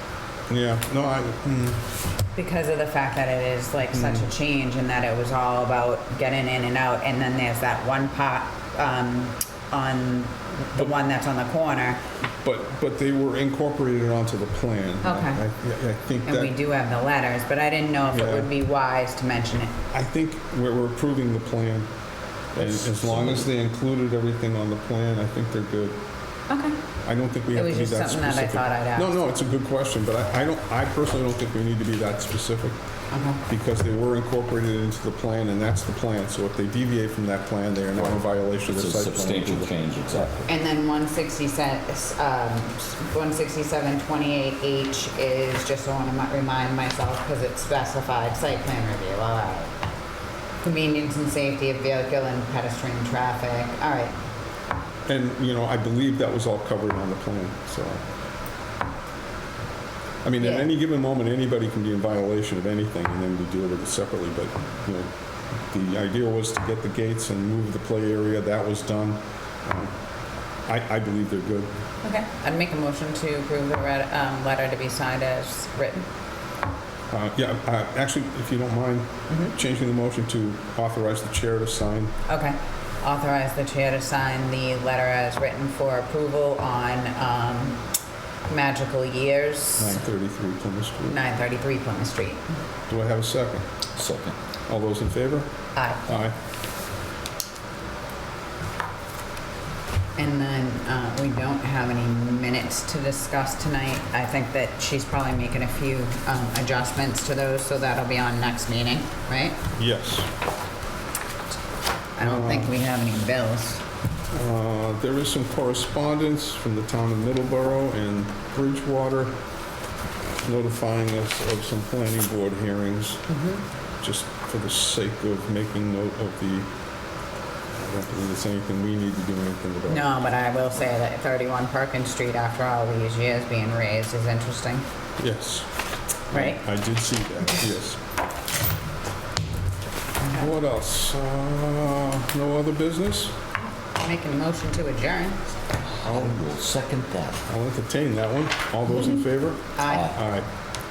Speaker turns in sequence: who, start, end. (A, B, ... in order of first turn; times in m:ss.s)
0:00.5-0:01.9 A
0:02.4-0:12.0 B
0:03.9-0:04.3 A
0:12.4-0:16.5 A
0:15.0-0:15.4 B
0:16.2-0:19.7 B
0:18.1-0:18.5 A
0:19.9-0:21.9 A
0:22.5-0:26.0 A
0:22.6-0:23.5 C
0:26.5-0:26.8 B
0:27.0-0:32.8 A
0:27.5-0:29.1 B
0:33.1-0:33.4 B
0:33.4-0:40.3 A
0:38.0-0:40.5 C
0:40.5-0:49.7 B
0:50.6-0:54.1 B
0:55.1-0:58.0 A
1:00.2-1:10.0 A
1:00.4-1:00.7 B
1:10.7-1:11.8 A
1:12.0-1:16.1 B
1:17.1-1:22.1 A
1:19.3-1:19.5 B
1:22.3-1:27.8 B
1:28.5-1:30.0 B
1:29.8-1:31.2 A
1:31.1-1:32.4 B
1:32.9-1:33.7 A
1:34.0-1:34.4 C
1:34.7-1:35.5 A
1:35.8-1:36.2 B
1:36.1-1:36.4 A
1:40.2-1:49.6 B
1:49.7-1:50.3 A
1:52.2-1:53.8 B
1:52.2-1:52.8 A
1:54.3-1:59.4 A
2:00.4-2:03.2 A
2:03.3-2:03.6 B
2:04.0-2:06.7 A
2:07.8-2:10.1 A
2:09.9-2:14.8 B
2:15.2-2:15.7 A
2:16.3-2:18.0 A
2:16.3-2:16.6 B
2:20.3-2:23.4 A
2:24.0-2:25.4 B
2:26.0-2:27.4 C
2:26.0-2:26.4 A
2:27.5-2:30.5 A
2:29.8-2:30.1 B
2:29.9-2:30.2 C